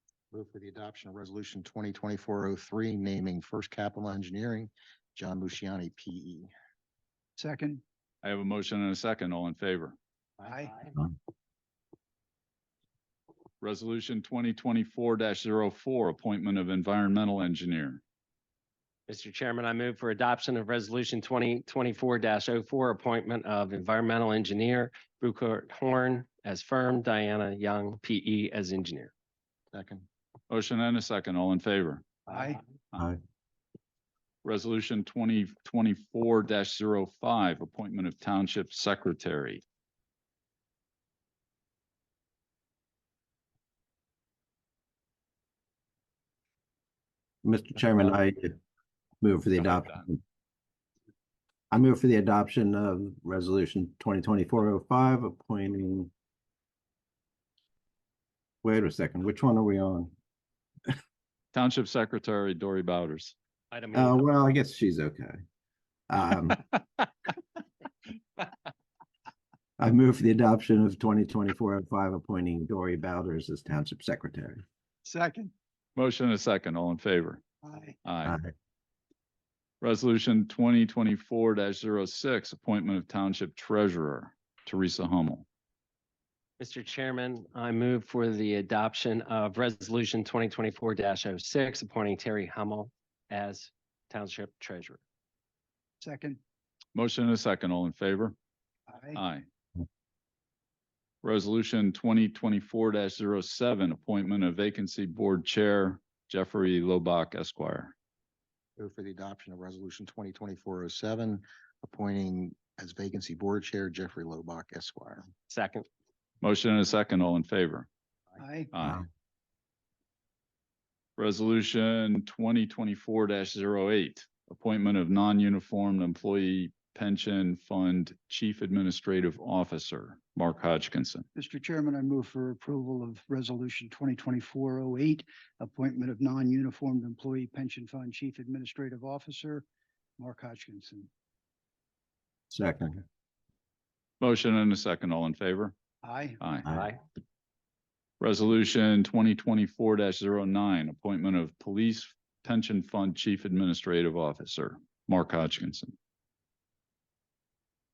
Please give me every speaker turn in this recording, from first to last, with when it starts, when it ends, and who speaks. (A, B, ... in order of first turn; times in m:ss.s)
0:00.3-0:06.5 A
0:07.4-0:07.8 B
0:08.2-0:10.0 C
0:10.4-0:10.8 B
0:13.6-0:18.0 C
0:19.1-0:29.1 D
0:29.7-0:30.0 A
0:30.5-0:32.0 C
0:32.3-0:32.6 B
0:34.4-0:39.6 C
0:47.4-0:48.6 E
0:49.2-0:50.2 E
0:49.6-0:50.0 C
0:51.7-0:56.1 E
0:58.6-1:00.1 E
1:01.5-1:03.3 C
1:03.7-1:04.2 D
1:03.9-1:05.4 E
1:06.1-1:06.7 E
1:09.8-1:14.6 E
1:15.0-1:15.5 B
1:16.0-1:17.4 C
1:17.6-1:18.0 B
1:18.0-1:18.4 C
1:18.2-1:18.5 E
1:19.8-1:25.4 C
1:26.6-1:35.0 D
1:36.0-1:36.4 B
1:36.9-1:38.3 C
1:38.9-1:39.2 B
1:39.1-1:39.4 C
1:41.2-1:47.9 C
1:48.8-1:55.3 A
1:55.5-1:55.9 D
1:56.4-1:57.9 C
1:58.4-1:58.7 B
1:58.7-1:59.0 C
2:01.2-2:11.2 C
2:11.3-2:19.6 B
2:20.2-2:21.1 B
2:22.5-2:23.0 E
2:24.2-2:25.7 C
2:26.0-2:26.4 B
2:26.4-2:26.7 C
2:26.6-2:26.9 E
2:26.7-2:27.0 D
2:28.2-2:35.9 C